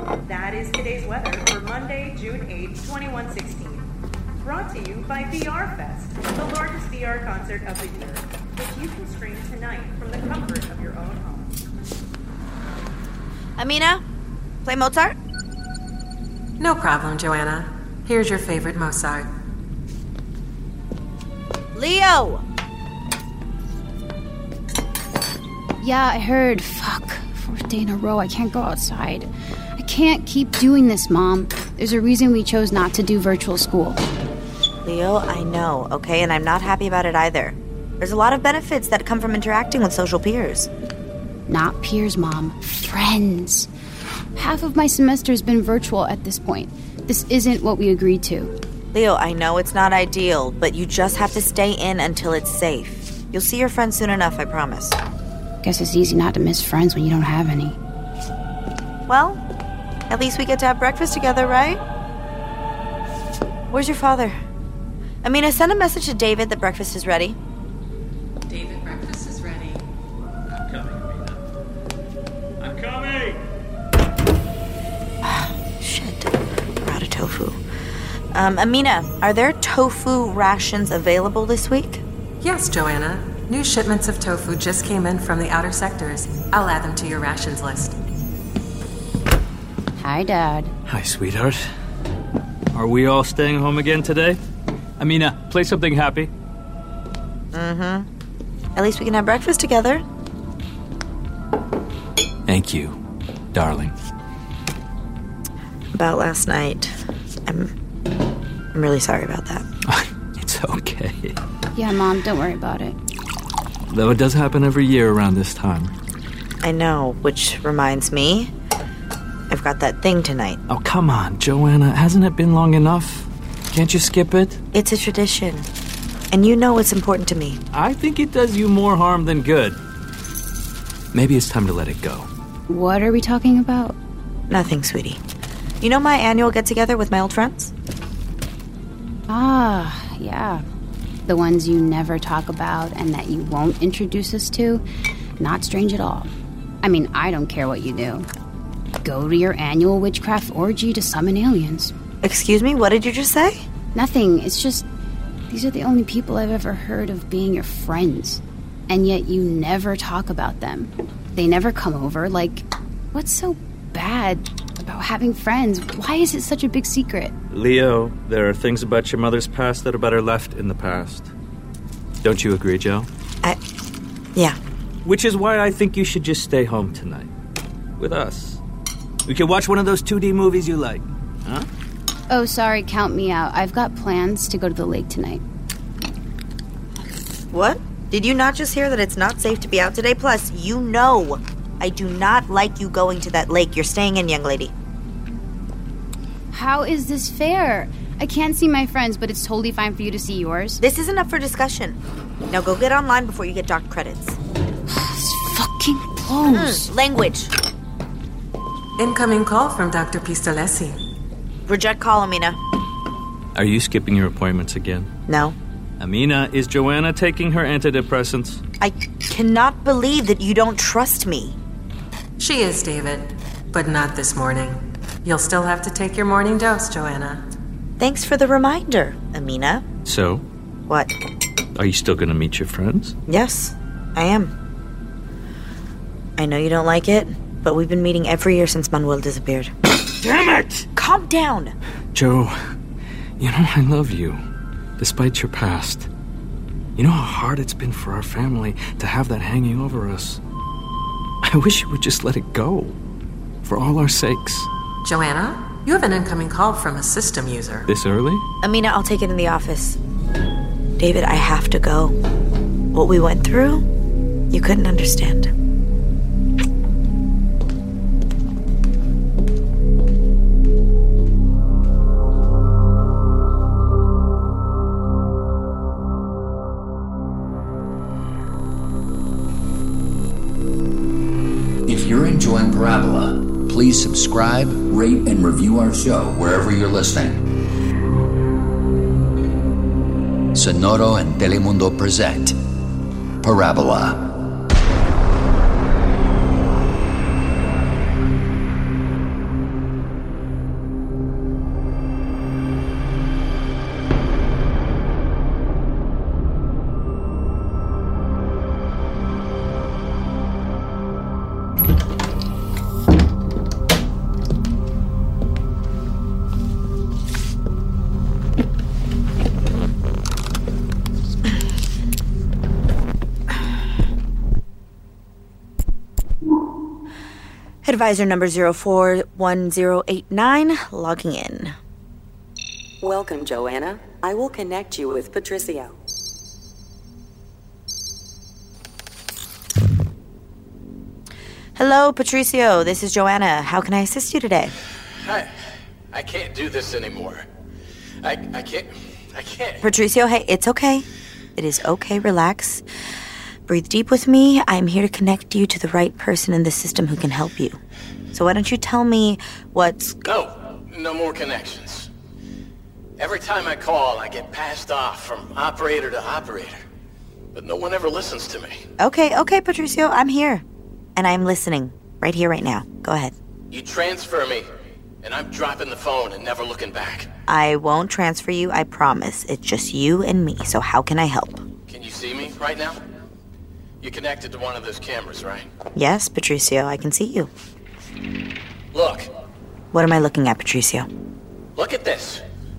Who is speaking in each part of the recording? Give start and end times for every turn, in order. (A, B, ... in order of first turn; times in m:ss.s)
0:00.2-0:03.9 A
0:04.4-0:11.6 A
0:13.6-0:14.0 B
0:14.6-0:15.2 B
0:16.6-0:19.3 C
0:21.7-0:22.4 B
0:25.8-0:34.0 D
0:34.8-0:40.7 B
0:41.5-0:43.7 D
0:44.3-0:48.5 D
0:48.9-0:55.0 B
0:55.6-0:57.8 D
0:59.1-0:59.4 B
1:00.1-1:01.8 B
1:03.7-1:04.4 B
1:05.2-1:07.4 B
1:08.5-1:09.8 C
1:10.7-1:11.4 E
1:12.6-1:13.4 E
1:15.2-1:17.6 B
1:18.3-1:22.0 B
1:22.4-1:27.9 C
1:30.0-1:30.7 D
1:30.9-1:31.6 E
1:32.7-1:34.4 E
1:35.0-1:36.3 E
1:37.5-1:38.1 B
1:38.8-1:40.0 B
1:42.5-1:43.0 E
1:43.5-1:43.9 E
1:45.9-1:47.7 B
1:48.7-1:49.6 B
1:49.9-1:51.4 E
1:51.7-1:53.0 D
1:53.9-1:55.9 E
1:56.6-1:58.5 B
1:59.5-2:00.6 B
2:00.7-2:04.6 E
2:04.7-2:05.7 B
2:06.3-2:07.6 B
2:07.7-2:09.8 E
2:11.1-2:12.3 E
2:12.7-2:14.0 D
2:14.5-2:15.2 B
2:15.8-2:17.7 B
2:19.3-2:20.6 D
2:21.3-2:24.8 D
2:25.4-2:26.3 D
2:26.8-2:28.3 D
2:29.0-2:31.9 D
2:32.2-2:33.6 B
2:33.9-2:34.8 D
2:35.5-2:47.3 D
2:47.5-2:51.3 E
2:52.2-2:53.1 E
2:55.0-2:57.3 E
2:58.0-2:58.6 E
2:59.2-3:01.6 E
3:02.3-3:05.4 D
3:07.5-3:14.7 B
3:16.5-3:20.8 D
3:20.8-3:22.0 B
3:22.5-3:24.4 B
3:24.9-3:26.9 D
3:26.4-3:27.5 B
3:29.0-3:31.0 C
3:31.7-3:32.6 B
3:33.5-3:35.1 E
3:35.3-3:35.6 B
3:36.0-3:38.6 E
3:38.8-3:41.6 B
3:42.4-3:47.4 C
3:48.0-3:49.8 B
3:50.0-3:50.4 E
3:50.9-3:51.1 B
3:51.7-3:53.1 E
3:53.3-3:54.5 B
3:56.4-3:59.7 B
4:00.1-4:00.8 E
4:01.0-4:01.8 B
4:02.1-4:02.6 E
4:03.4-4:04.4 E
4:05.0-4:06.1 E
4:07.0-4:10.4 E
4:11.4-4:13.0 E
4:13.6-4:14.7 E
4:15.0-4:17.9 C
4:17.9-4:18.4 E
4:18.6-4:20.0 B
4:21.0-4:22.2 B
4:22.9-4:23.8 B
4:24.5-4:25.5 B
4:41.8-4:47.4 F
4:50.5-4:52.6 F
4:53.4-4:54.4 F
5:27.8-5:31.8 B
5:33.0-5:35.9 G
5:41.8-5:44.7 B
5:45.2-5:45.5 H
5:46.1-5:47.4 H
5:48.2-5:49.8 H
5:49.8-5:52.8 B
5:53.7-5:57.8 B
5:58.3-6:00.2 B
6:00.2-6:02.1 H
6:03.2-6:06.8 H
6:07.5-6:08.8 H
6:09.0-6:10.6 B
6:11.2-6:13.3 B
6:13.7-6:14.6 H
6:15.2-6:17.3 H
6:17.5-6:21.6 B
6:21.9-6:23.0 H
6:24.0-6:25.7 H
6:25.9-6:27.5 B
6:28.9-6:29.3 H
6:29.9-6:31.1 B
6:31.8-6:32.4 H